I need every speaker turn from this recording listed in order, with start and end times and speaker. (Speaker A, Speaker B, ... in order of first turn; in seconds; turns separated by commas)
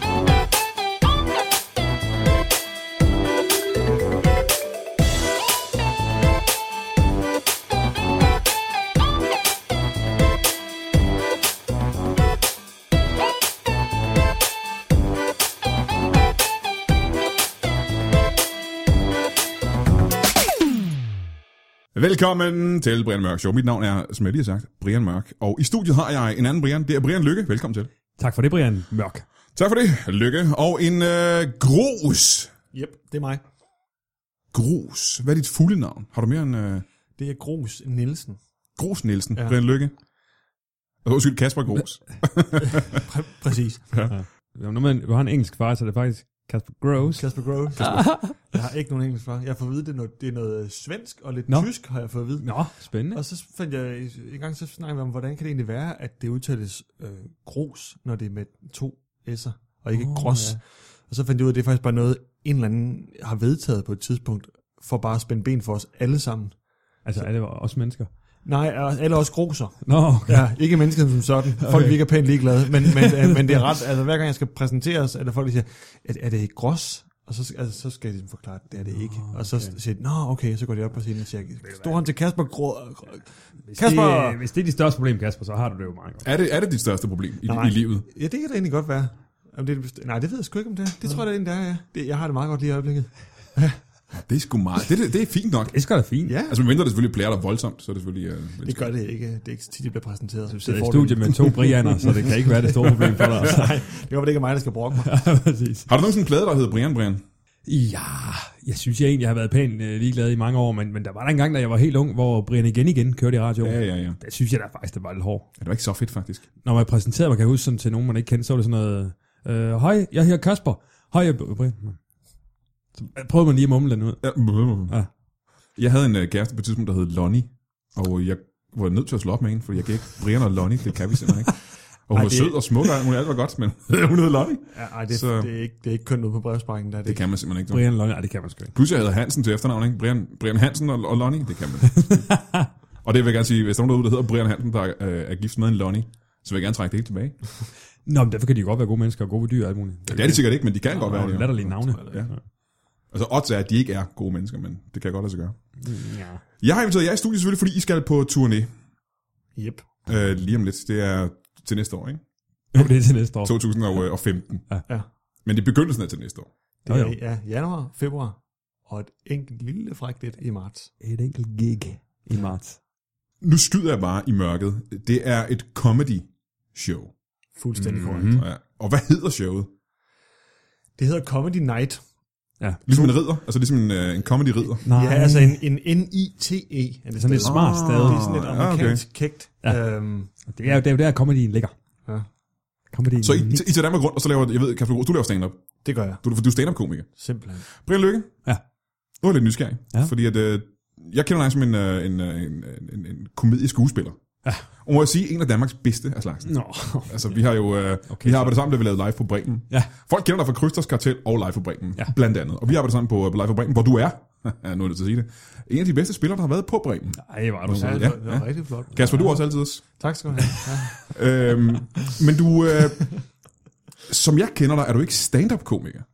Speaker A: 21.9-27.9, Speaker B: 28.2-29.2, Speaker A: 29.5-32.5, Speaker C: 32.7-33.4, Speaker A: 34.5-36.8, Speaker C: 37.2-38.4, Speaker A: 38.8-39.9, Speaker A: 41.0-43.0, Speaker C: 43.0-44.0, Speaker B: 44.1-48.4, Speaker C: 47.1-52.5, Speaker B: 52.4-53.2, Speaker C: 53.1-66.6, Speaker B: 59.9-60.6, Speaker B: 67.0-68.1, Speaker C: 68.4-84.4, Speaker B: 69.8-70.6, Speaker B: 71.6-72.0, Speaker B: 72.7-73.6, Speaker B: 78.9-79.7, Speaker B: 81.7-82.0, Speaker B: 83.7-86.2, Speaker A: 86.2-88.0, Speaker C: 87.5-93.8, Speaker A: 94.2-95.8, Speaker B: 95.7-96.4, Speaker C: 96.2-96.6, Speaker A: 96.5-98.9, Speaker C: 98.6-105.1, Speaker B: 100.6-103.8, Speaker B: 105.0-105.9, Speaker A: 105.9-107.2, Speaker B: 107.7-115.5, Speaker A: 113.6-114.2, Speaker A: 115.6-116.4, Speaker B: 116.6-122.0, Speaker B: 123.0-125.1, Speaker A: 124.2-125.0, Speaker A: 125.8-135.5, Speaker C: 132.1-132.6, Speaker C: 134.7-137.2, Speaker A: 137.0-137.8, Speaker B: 137.7-138.7, Speaker A: 138.7-142.2, Speaker B: 141.9-142.7, Speaker A: 143.0-147.4, Speaker B: 148.1-152.4, Speaker A: 150.1-152.3, Speaker C: 151.8-152.3, Speaker A: 153.1-155.8, Speaker B: 155.8-156.4, Speaker A: 156.6-158.7, Speaker C: 159.5-159.9, Speaker A: 160.1-162.2, Speaker B: 162.7-163.8, Speaker A: 163.4-164.7, Speaker A: 165.4-166.5, Speaker C: 166.8-170.9, Speaker B: 166.9-167.1, Speaker B: 171.0-172.8, Speaker A: 173.4-177.1, Speaker C: 177.6-178.4, Speaker A: 177.8-179.7, Speaker B: 177.8-178.4, Speaker C: 181.0-182.0, Speaker B: 182.6-183.1, Speaker A: 182.8-184.8, Speaker B: 184.8-185.6, Speaker C: 184.8-190.3, Speaker B: 187.2-188.3, Speaker A: 187.4-189.0, Speaker B: 190.4-191.7, Speaker B: 192.9-193.7, Speaker A: 193.2-195.6, Speaker C: 195.8-196.2, Speaker A: 196.2-197.1, Speaker C: 197.2-197.6, Speaker A: 197.6-198.4, Speaker A: 199.2-204.2, Speaker A: 204.8-206.5, Speaker B: 206.4-207.2, Speaker A: 207.1-219.8, Speaker B: 208.1-208.6, Speaker B: 217.2-218.2, Speaker C: 217.8-221.1, Speaker A: 221.1-223.1, Speaker A: 224.1-226.0